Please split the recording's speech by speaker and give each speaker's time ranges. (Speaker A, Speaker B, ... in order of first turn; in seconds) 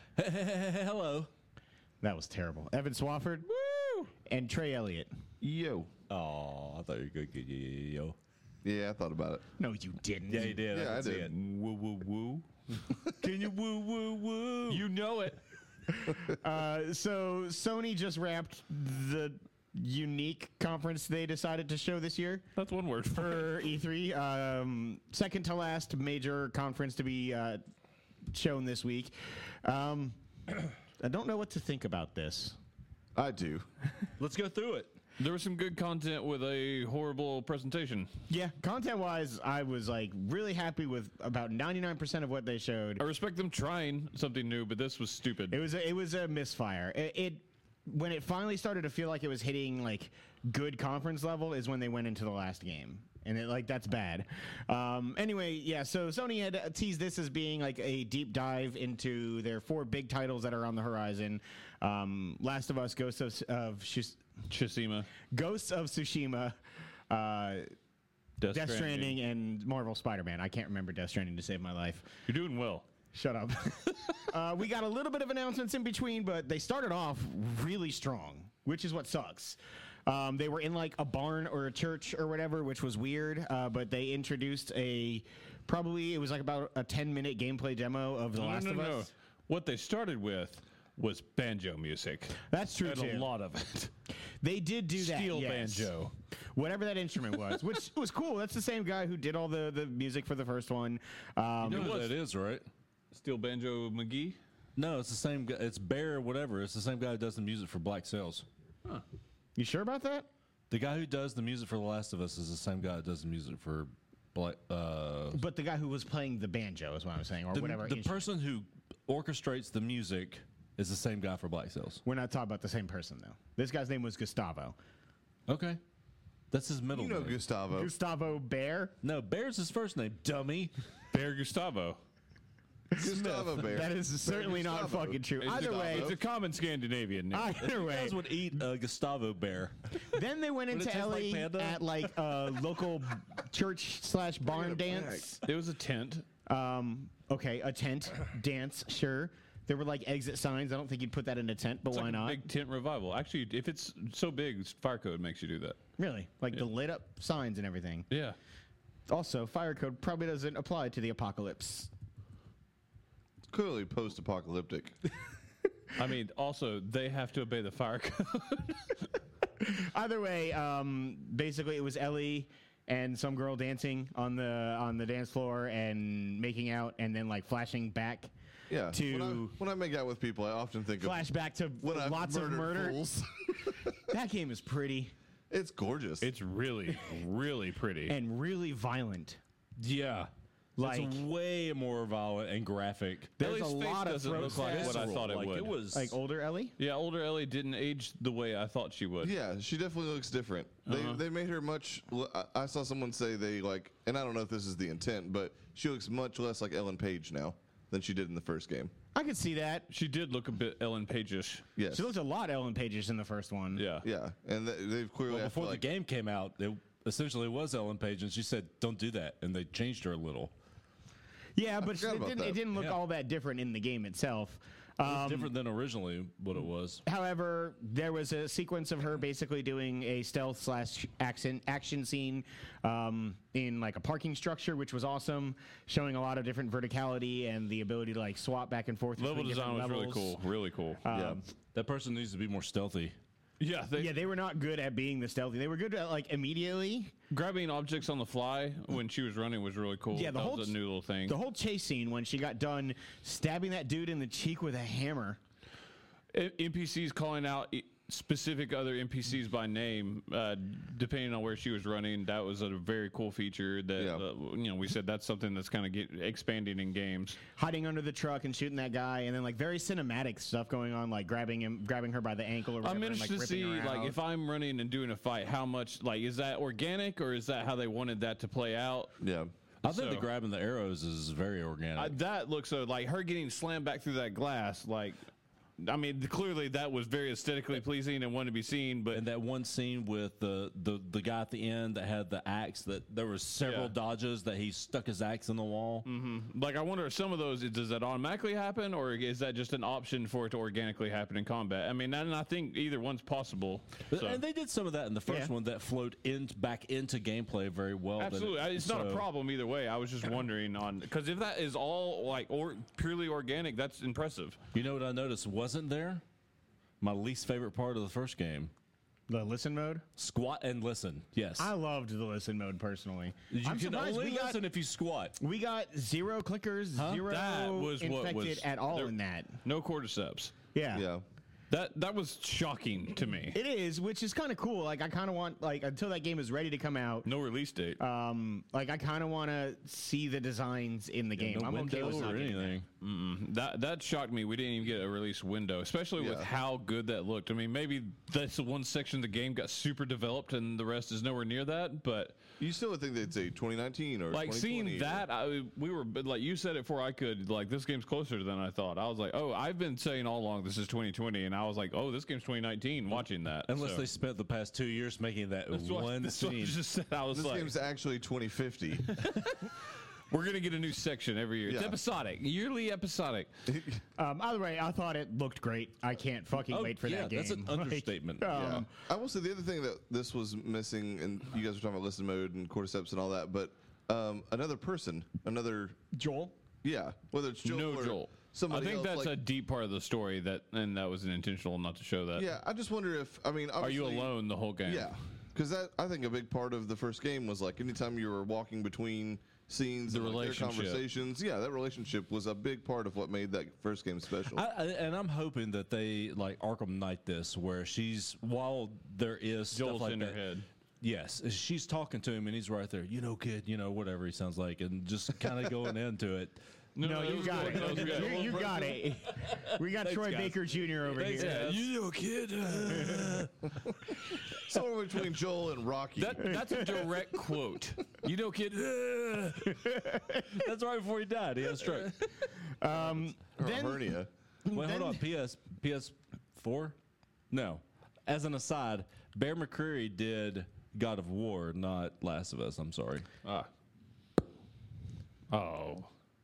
Speaker A: 0.2-1.3, 6.1-8.2, 10.3-11.3, 13.2-14.8, 34.2-35.0, 101.6-102.7, 104.8-108.5, 110.7-115.4, 117.5-122.0, 125.5-125.8, 126.5-127.4, 129.0-130.7, 137.6-139.9, 140.7-142.3, 189.8-193.3, 194.3-196.2, 215.3-220.5, 225.0-227.0, 241.7-243.2, 279.8-282.2, 289.1-296.1, 304.1-309.2, 314.7-316.2, 317.0-318.7, 320.2-321.7, 323.5-325.4, 326.9-327.3, 341.4-342.9, 363.7-366.8, 376.7-378.7, 404.4-410.4, 411.0-416.6, 417.2-423.8, 428.9-432.4, 434.7-437.0, 437.5-443.3
Speaker B: 2.0-3.5, 4.1-5.1, 9.6-10.6, 15.9-22.5, 23.1-27.6, 28.3-29.1, 29.6-30.2, 31.0-32.5, 38.3-43.0, 45.5-64.2, 65.3-66.6, 67.1-67.7, 68.5-72.1, 73.1-89.1, 92.5-93.3, 94.4-95.9, 96.5-102.0, 109.6-110.3, 115.3-118.2, 122.0-124.8, 127.7-128.9, 132.9-136.1, 137.3-138.3, 140.1-145.4, 146.4-152.4, 156.0-158.1, 159.1-161.9, 169.6-178.3, 178.9-179.6, 181.0-183.0, 184.1-185.1, 188.1-189.4, 190.8-191.2, 193.4-195.1, 195.9-196.8, 209.1-209.9, 211.9-213.8, 221.6-225.5, 227.0-240.4, 241.0-241.5, 244.0-247.1, 250.1-255.4, 267.6-274.2, 305.3-305.5, 319.3-320.1, 321.6-324.6, 325.4-329.6, 330.7-331.1, 333.5-337.3, 338.0-342.8, 374.2-378.9, 386.1-386.6, 417.0-421.7, 426.5-427.1, 429.7-430.6, 432.8-434.1, 434.7-435.2
Speaker C: 3.5-4.1, 11.2-12.4, 14.7-15.4, 22.6-23.6, 35.2-38.1, 43.0-45.6, 64.5-65.1, 68.4-69.2, 72.2-72.8, 88.3-93.9, 95.0-96.1, 101.7-102.1, 103.1-104.4, 131.1-132.0, 135.4-137.6, 145.4-146.2, 151.9-155.8, 158.1-158.3, 165.9-168.9, 186.2-188.2, 193.4-195.7, 196.8-199.3, 200.8-201.2, 209.9-211.6, 213.8-214.1, 239.2-241.0, 243.6-244.1, 247.3-251.4, 256.3-267.4, 272.8-279.1, 279.9-280.2, 282.0-285.2, 285.8-289.2, 293.6-293.9, 296.1-304.4, 308.2-314.6, 327.2-330.5, 331.7-333.6, 337.2-338.0, 343.0-352.4, 354.3-364.0, 365.7-367.7, 369.1-373.5, 387.6-392.5, 393.8-395.1, 400.1-401.0, 409.7-410.7, 416.9-418.9, 421.3-421.9, 426.2-429.0, 431.8-432.1, 445.5-446.1
Speaker D: 5.4-5.9, 8.6-9.4, 10.6-11.3, 33.2-33.7, 126.9-127.9, 132.9-136.2, 144.4-145.2, 163.5-165.0, 178.7-181.2, 181.8-184.0, 185.5-186.3, 199.2-208.9, 211.8-212.1, 214.0-215.8, 221.8-222.6, 241.1-241.4, 264.0-264.2, 279.2-279.5, 330.9-331.2, 346.2-346.5, 352.6-355.2, 367.3-369.2, 371.7-372.0, 373.7-374.0, 378.5-386.0, 386.8-389.4, 392.4-394.3, 394.9-404.6, 424.5-426.6, 433.6-434.3